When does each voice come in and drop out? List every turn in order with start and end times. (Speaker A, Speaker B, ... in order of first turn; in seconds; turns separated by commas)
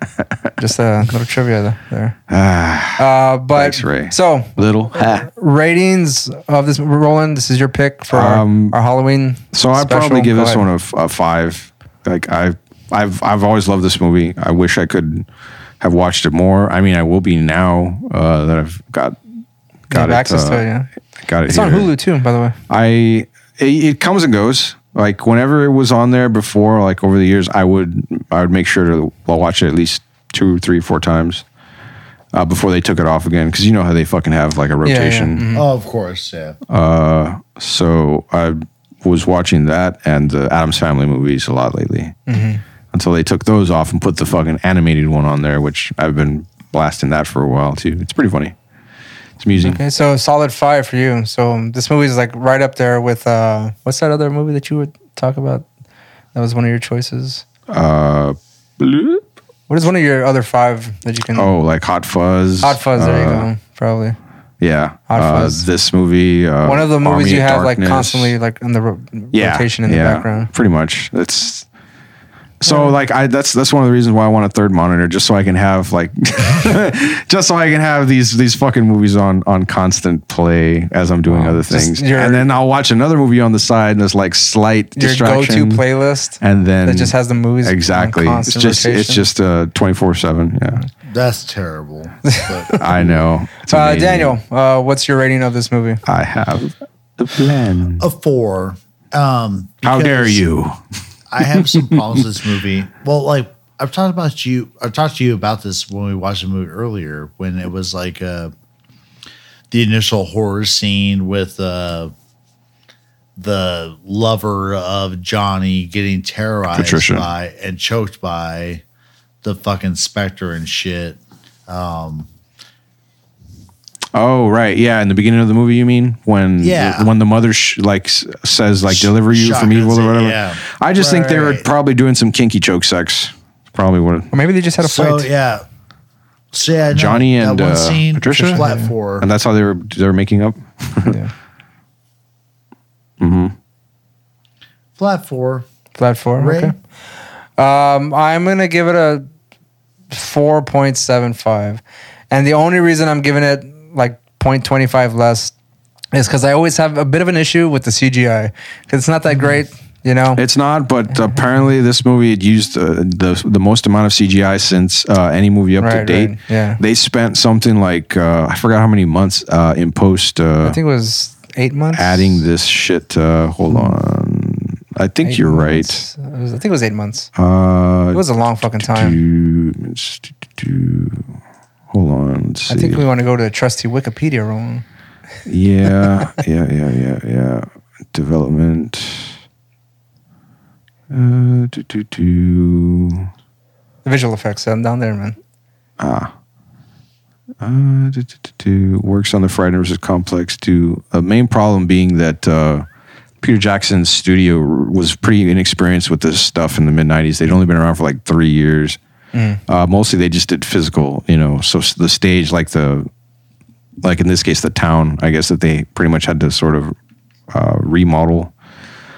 Speaker A: 0.6-2.1, Speaker B: 2.3-5.3, Speaker A: 3.0-10.6, Speaker B: 8.1-8.8, Speaker B: 9.5-15.2, Speaker B: 15.8-19.2, Speaker B: 19.9-20.6, Speaker A: 19.9-20.9, Speaker B: 21.2-21.9, Speaker A: 21.4-22.6, Speaker B: 22.7-31.4, Speaker B: 32.3-35.4, Speaker A: 34.8-35.6, Speaker C: 35.5-36.5, Speaker B: 36.7-42.2, Speaker A: 42.3-42.6, Speaker B: 42.9-48.5, Speaker B: 49.4-49.8, Speaker A: 49.6-55.6, Speaker A: 56.3-57.4, Speaker B: 57.7-59.2, Speaker A: 59.7-61.5, Speaker B: 61.3-63.5, Speaker A: 62.6-64.2, Speaker B: 64.6-68.3, Speaker A: 65.1-65.6, Speaker A: 66.6-70.5, Speaker B: 69.3-71.7, Speaker B: 72.6-85.8, Speaker A: 72.7-72.9, Speaker A: 81.3-82.5, Speaker A: 85.0-89.3, Speaker B: 86.4-90.8, Speaker C: 91.0-93.2, Speaker A: 92.3-92.8, Speaker B: 92.8-94.4, Speaker A: 93.7-96.0, Speaker B: 96.0-98.0, Speaker C: 98.0-100.4, Speaker B: 99.8-100.8, Speaker C: 101.3-108.5, Speaker B: 101.5-102.0, Speaker C: 109.7-112.1, Speaker C: 113.3-118.8, Speaker B: 116.7-117.2, Speaker C: 119.4-122.3, Speaker B: 124.1-134.3, Speaker C: 126.6-127.1, Speaker C: 128.9-130.6, Speaker A: 131.0-131.6, Speaker A: 134.3-135.3, Speaker C: 134.8-135.6, Speaker C: 136.5-139.3, Speaker B: 136.9-138.6, Speaker A: 138.3-138.9, Speaker B: 139.2-141.2, Speaker A: 141.1-141.3, Speaker B: 143.2-143.5, Speaker C: 145.0-145.7, Speaker A: 145.9-146.7, Speaker C: 146.3-146.7, Speaker A: 147.6-149.2, Speaker A: 150.1-155.5, Speaker A: 156.1-160.4, Speaker B: 160.3-170.8, Speaker A: 161.1-161.4, Speaker A: 165.8-166.8, Speaker A: 170.6-172.4, Speaker B: 171.9-176.0, Speaker A: 173.7-173.9, Speaker A: 175.2-177.3, Speaker B: 177.3-181.3, Speaker A: 178.1-179.2, Speaker B: 181.9-183.0, Speaker A: 182.7-184.8, Speaker B: 185.5-189.3, Speaker B: 191.1-193.3, Speaker A: 194.0-195.4, Speaker B: 196.0-196.3, Speaker B: 197.6-202.8, Speaker B: 203.4-209.0, Speaker A: 209.3-209.6, Speaker B: 209.7-213.1, Speaker B: 214.0-216.9, Speaker B: 217.5-218.5